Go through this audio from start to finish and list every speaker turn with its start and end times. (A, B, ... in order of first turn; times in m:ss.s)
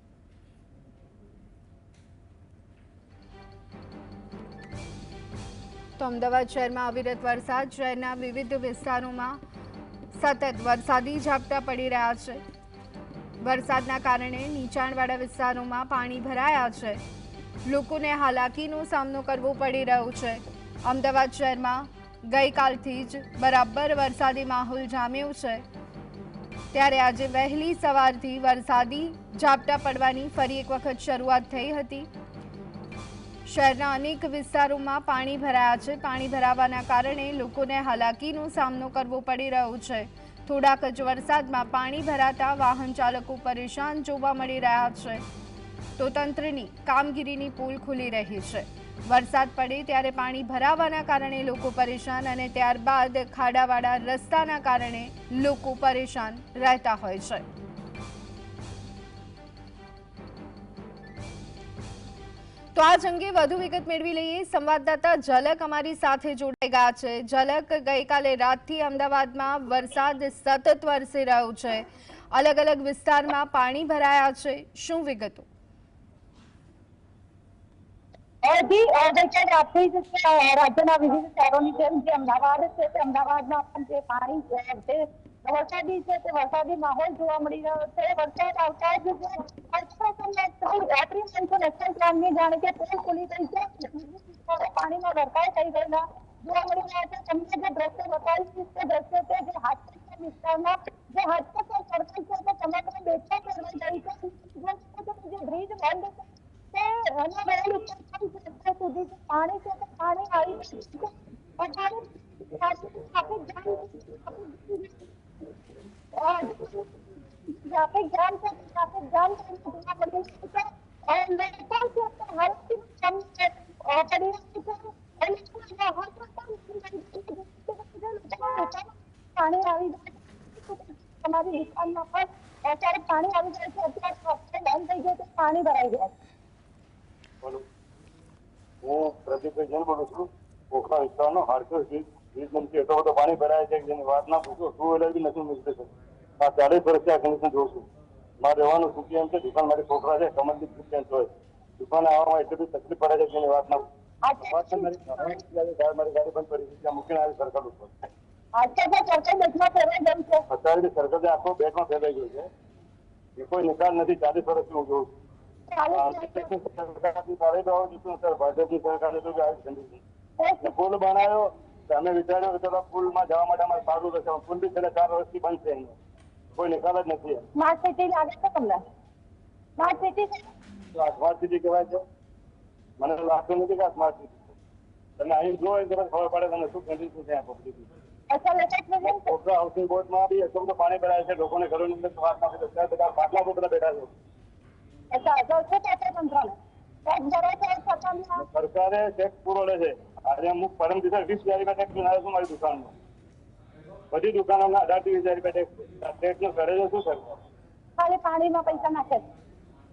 0:06.0-0:09.4 A
0:10.1-0:12.4 A
0:13.4-0:17.0 A
0:17.6-0:25.6 A
0:26.7-0:32.1 A
0:33.4-0:45.2 A
0:46.0-0:57.4 A
1:02.8-1:15.5 A
1:18.4-1:55.0 B
1:56.2-1:56.9 B
1:57.6-2:16.1 B
2:18.8-2:27.9 C
2:28.4-2:33.9 C
2:34.2-2:35.0 B
2:34.4-2:38.1 C
2:38.6-2:40.4 B
2:40.5-2:42.5 C
2:43.4-2:45.1 C
2:45.7-2:46.5 B
2:45.9-2:50.0 C
2:50.4-2:50.7 B
2:50.6-2:56.0 C
2:56.6-2:57.5 C
2:57.6-2:58.8 B
2:59.8-3:00.5 B
3:00.9-3:02.0 C
3:03.0-3:04.5 C
3:05.2-3:07.9 C
3:08.3-3:09.3 B
3:09.0-3:14.1 C
3:15.1-3:16.5 B
3:17.1-3:18.5 B
3:18.4-3:22.9 C
3:24.1-3:27.4 C
3:28.0-3:29.3 B